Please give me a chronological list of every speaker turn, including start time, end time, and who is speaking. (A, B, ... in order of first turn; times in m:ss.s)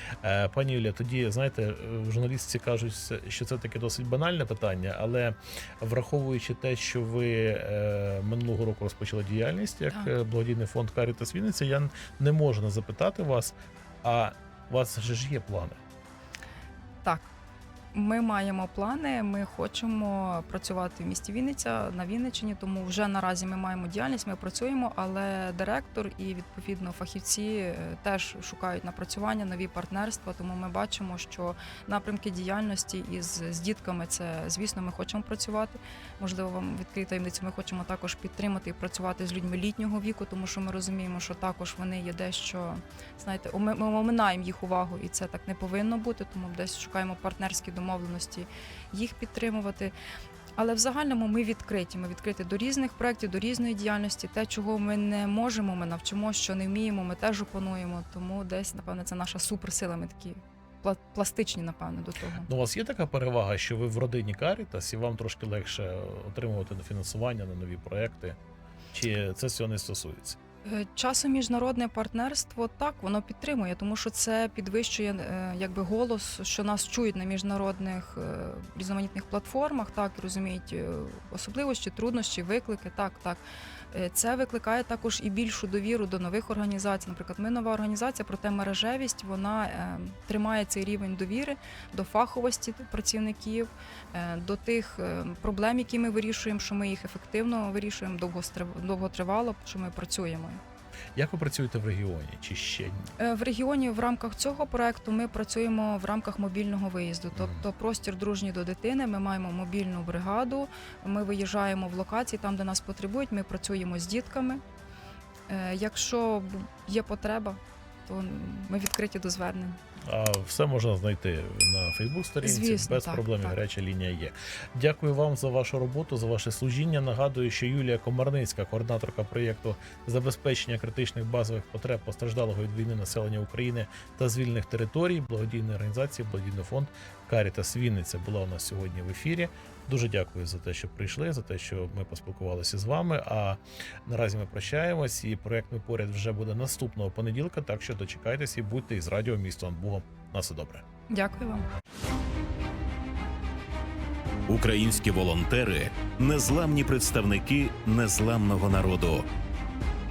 0:00.2-0:15.8 A
0:17.0-0:17.3 B
0:17.9-0:49.9 B
0:50.6-1:02.5 B
1:02.4-1:08.4 A
1:08.9-1:10.4 A
1:10.6-1:40.6 B
1:41.1-1:43.1 A
1:43.2-1:54.6 B
1:55.5-1:59.8 B
2:00.0-2:30.8 A
2:02.4-2:03.6 B
2:31.1-2:31.7 B
2:34.5-2:39.3 C